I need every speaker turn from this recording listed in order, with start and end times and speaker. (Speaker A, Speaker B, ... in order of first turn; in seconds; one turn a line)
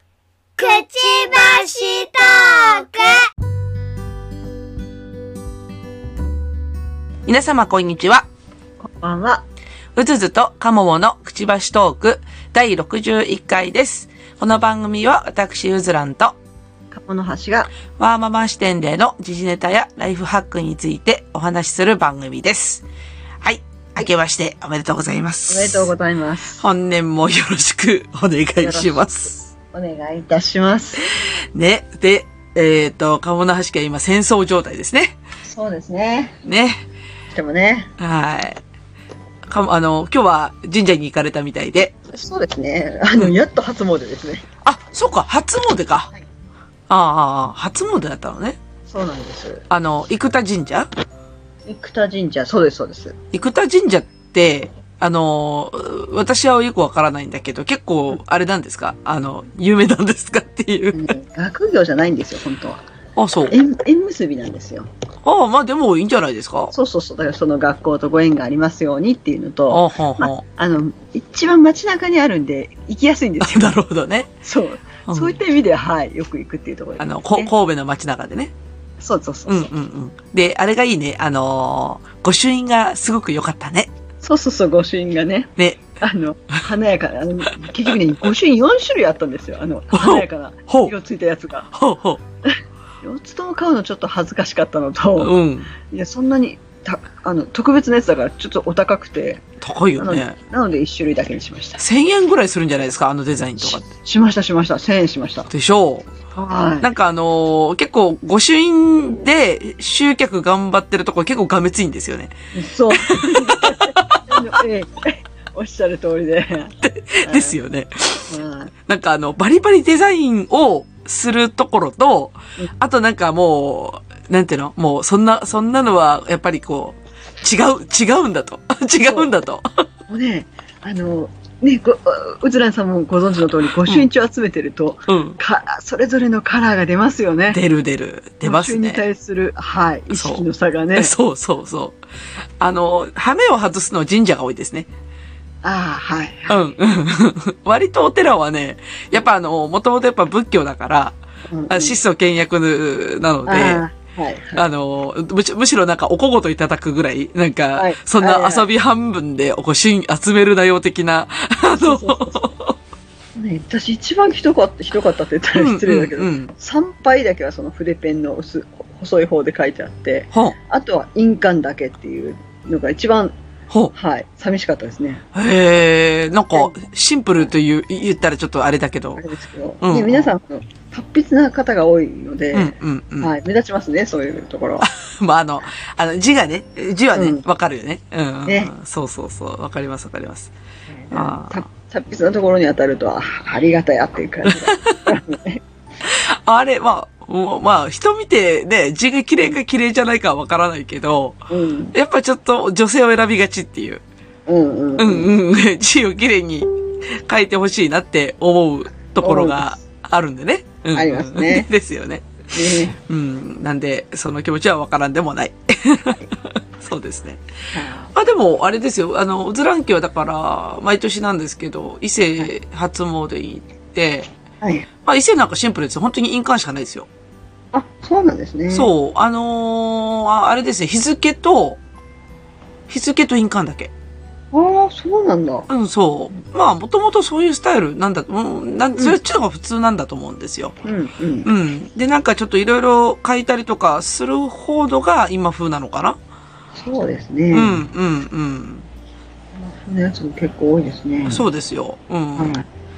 Speaker A: 0.6-3.3
Speaker B: 7.3-8.3
Speaker C: 8.8-9.4
Speaker B: 9.9-16.4
Speaker C: 16.9-17.7
Speaker B: 17.9-22.8
Speaker B: 23.4-25.9
Speaker C: 25.5-26.6
Speaker B: 26.6-29.5
Speaker C: 28.6-29.0
Speaker C: 29.7-31.1
Speaker B: 31.1-35.2
Speaker C: 35.4-36.4
Speaker B: 36.4-36.8
Speaker C: 37.3-37.9
Speaker B: 38.0-38.6
Speaker B: 39.5-41.9
Speaker C: 42.1-44.5
Speaker B: 44.6-46.1
Speaker B: 46.9-48.6
Speaker C: 48.9-49.6
Speaker B: 49.7-50.9
Speaker C: 51.6-53.2
Speaker B: 53.3-61.1
Speaker C: 60.9-62.8
Speaker B: 63.1-63.5
Speaker C: 63.5-64.9
Speaker B: 65.2-66.7
Speaker C: 66.7-73.8
Speaker B: 69.7-70.4
Speaker B: 73.4-74.3
Speaker C: 74.4-77.5
Speaker B: 75.1-75.4
Speaker B: 77.0-78.5
Speaker C: 79.0-79.7
Speaker B: 79.5-83.9
Speaker C: 84.2-91.7
Speaker B: 85.6-85.8
Speaker B: 87.6-87.9
Speaker B: 89.9-90.9
Speaker B: 91.7-92.2
Speaker C: 92.5-99.4
Speaker B: 95.2-95.7
Speaker B: 99.6-100.3
Speaker C: 100.0-101.8
Speaker B: 101.8-103.9
Speaker C: 103.6-105.5
Speaker B: 105.5-106.1
Speaker C: 106.3-106.9
Speaker B: 106.8-112.3
Speaker C: 112.5-117.6
Speaker B: 112.9-114.6
Speaker B: 116.8-118.3
Speaker C: 118.3-118.7
Speaker B: 118.9-129.9
Speaker C: 129.0-129.3
Speaker C: 130.1-137.6
Speaker B: 135.1-135.4
Speaker B: 137.5-139.0
Speaker C: 138.4-141.1
Speaker B: 140.1-140.4
Speaker B: 140.9-142.0
Speaker B: 142.6-144.9
Speaker C: 145.6-146.7
Speaker B: 146.5-151.2
Speaker C: 151.5-152.0
Speaker B: 151.7-153.8
Speaker C: 153.5-154.7
Speaker B: 154.6-162.8
Speaker C: 157.8-158.7
Speaker C: 161.7-162.5
Speaker C: 163.3-173.3
Speaker B: 165.5-166.5
Speaker C: 173.9-175.2
Speaker B: 175.3-179.2
Speaker C: 179.2-184.9
Speaker B: 179.8-180.3
Speaker B: 182.5-183.3
Speaker B: 184.8-190.5
Speaker C: 187.1-187.4
Speaker C: 188.4-188.7
Speaker C: 190.9-195.6
Speaker B: 191.1-191.6
Speaker B: 194.4-195.1
Speaker B: 196.0-204.0
Speaker C: 201.5-201.9
Speaker C: 204.5-205.3
Speaker B: 205.0-217.4
Speaker C: 209.2-209.8
Speaker C: 210.9-211.7
Speaker C: 212.5-213.0
Speaker C: 217.7-218.1
Speaker B: 218.1-224.3
Speaker C: 224.6-224.9
Speaker B: 225.0-227.1
Speaker C: 227.7-228.9
Speaker B: 228.7-231.8
Speaker B: 232.9-233.9
Speaker C: 234.5-235.7
Speaker B: 235.7-240.8
Speaker C: 240.8-241.5
Speaker B: 241.4-246.2
Speaker C: 246.8-247.9
Speaker B: 247.5-248.9
Speaker C: 249.6-251.4
Speaker B: 251.2-252.6
Speaker C: 252.4-252.7